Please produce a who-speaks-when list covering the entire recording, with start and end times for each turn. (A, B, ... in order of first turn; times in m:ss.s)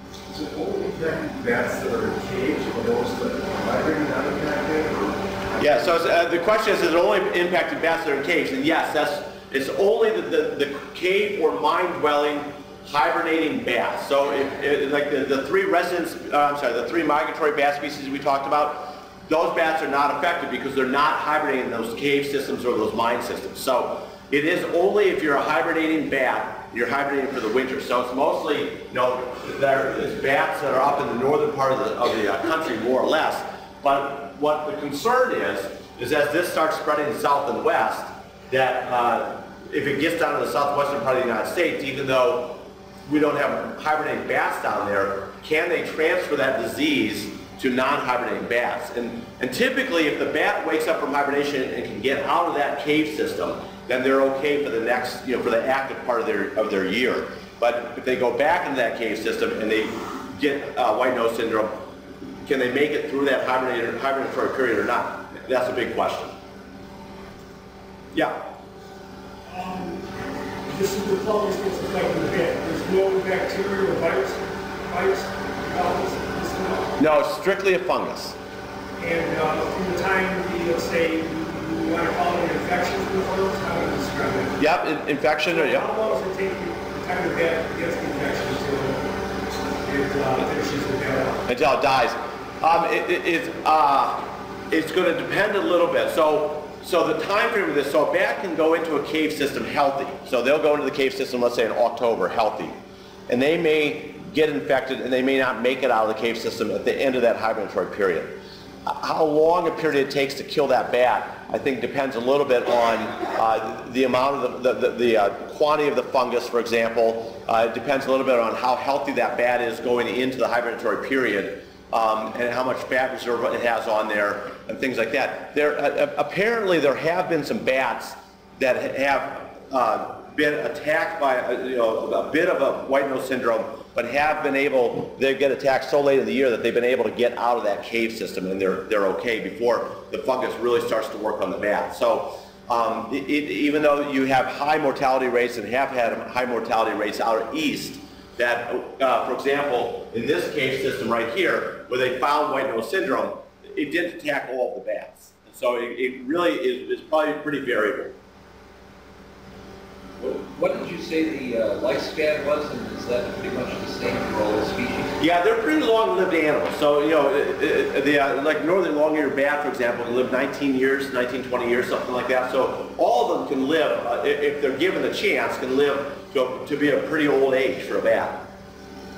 0:00.3-0:06.0 A
0:05.6-1:01.9 B
1:02.4-1:06.3 B
1:08.1-1:08.4 B
1:09.5-1:10.0 C
1:10.7-1:17.0 C
1:17.0-1:18.4 B
1:19.0-1:24.6 C
1:24.6-1:25.9 B
1:25.5-1:29.0 C
1:29.8-1:31.4 C
1:31.5-2:38.1 B
2:40.2-2:45.2 D
2:45.2-2:58.5 B